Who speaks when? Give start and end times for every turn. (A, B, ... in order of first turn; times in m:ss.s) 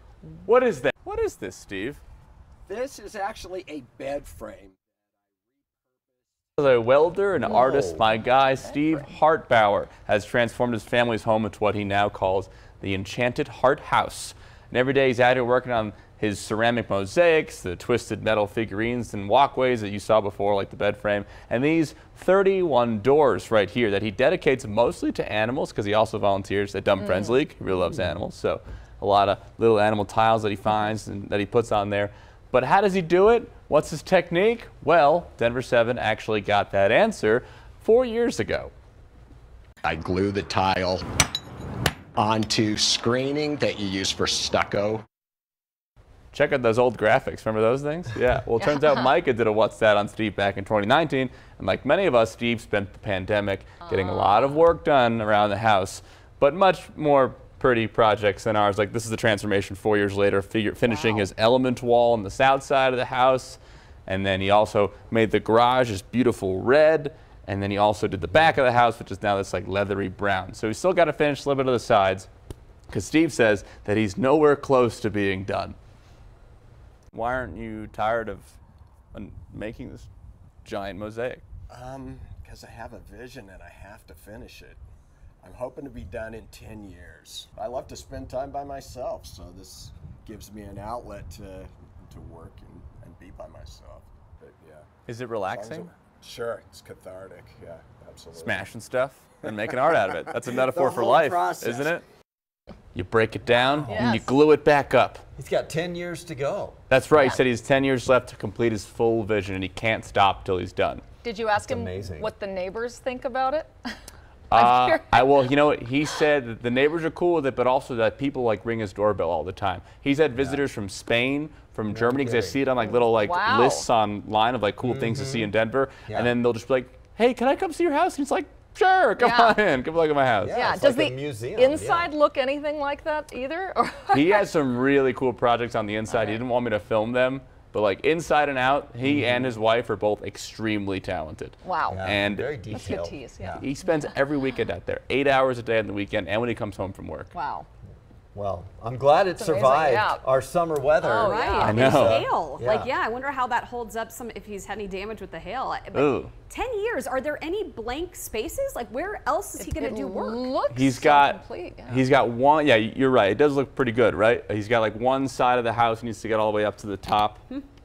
0:00.2-0:02.0 A
0:02.7-0:06.2 B
0:06.6-0:38.7 A
0:07.4-0:08.2 C
0:08.7-0:09.0 D
0:27.0-0:27.4 D
0:39.8-0:41.0 B
0:42.2-0:45.0 B
0:46.3-1:12.3 A
0:48.6-0:49.1 D
0:53.8-0:54.5 D
1:00.9-1:01.3 D
1:12.9-1:15.8 A
1:17.1-1:18.6 A
1:19.1-1:20.1 A
1:20.6-1:21.4 A
1:21.7-1:24.8 B
1:25.4-1:34.9 B
1:35.1-1:35.9 A
1:35.5-1:38.7 B
1:38.4-1:42.0 A
1:40.5-1:41.9 C
1:42.9-1:45.2 A
1:43.8-1:44.3 D
1:45.4-1:46.8 C
1:46.9-1:51.0 A
1:51.2-1:53.7 D
1:51.6-1:52.3 C
1:54.5-2:10.6 A
1:54.5-1:55.3 D
2:00.3-2:00.6 C
2:01.9-2:02.6 C
2:02.8-2:03.9 D
2:04.8-2:05.5 C
2:09.2-2:09.6 D
2:10.4-2:12.1 C
2:10.5-2:14.4 D
2:14.1-2:22.5 A
2:16.1-2:16.4 D
2:19.0-2:19.6 C
2:21.6-2:22.0 D
2:21.9-2:23.7 C
2:22.7-2:24.0 D
2:23.6-2:27.3 A
2:27.3-2:27.7 D
2:28.3-2:32.9 C
2:29.4-2:30.2 D
2:31.0-2:31.8 D
2:31.2-2:40.6 E
2:31.7-2:32.3 A
2:35.9-2:36.3 A
2:39.6-2:42.0 D
2:40.7-2:47.4 A